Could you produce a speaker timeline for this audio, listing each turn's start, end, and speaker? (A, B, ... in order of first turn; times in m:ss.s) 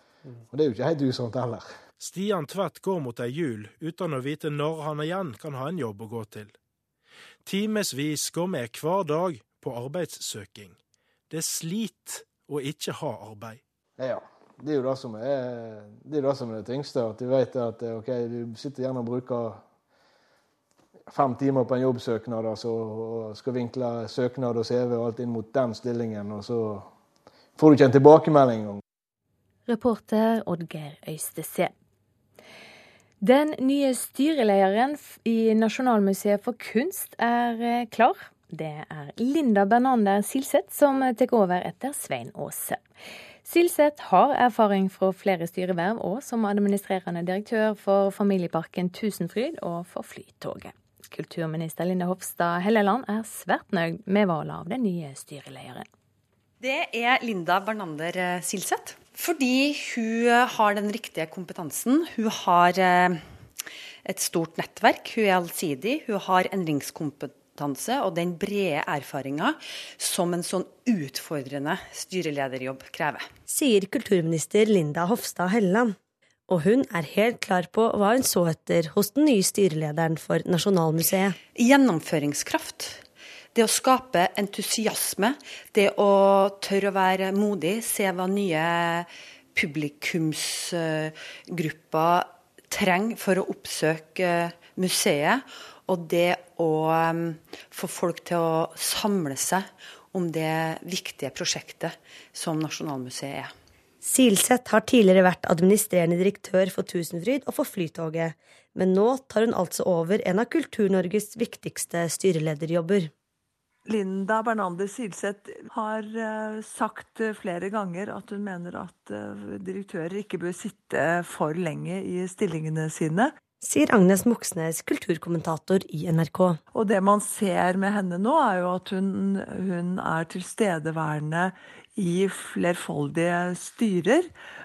0:00.5-0:01.7 A
0:02.0-0:06.6 B
0:07.4-0:10.8 B
0:11.3-0:13.6 B
0:14.0-0:19.6 A
0:21.1-0:26.9 A
0:27.6-0:28.8 A
0:29.7-0:31.7 C
0:33.2-0:42.8 C
0:43.4-0:55.9 C
1:00.1-1:01.3 D
1:01.8-1:03.1 D
1:04.1-1:09.5 D
1:10.0-1:13.2 D
1:13.5-1:16.0 E
1:16.5-1:21.4 E
1:21.6-1:23.0 D
1:23.6-1:29.0 D
1:29.6-1:43.5 D
1:44.0-1:53.1 E
1:53.9-2:03.3 F
2:03.6-2:06.6 E
2:06.7-2:14.3 F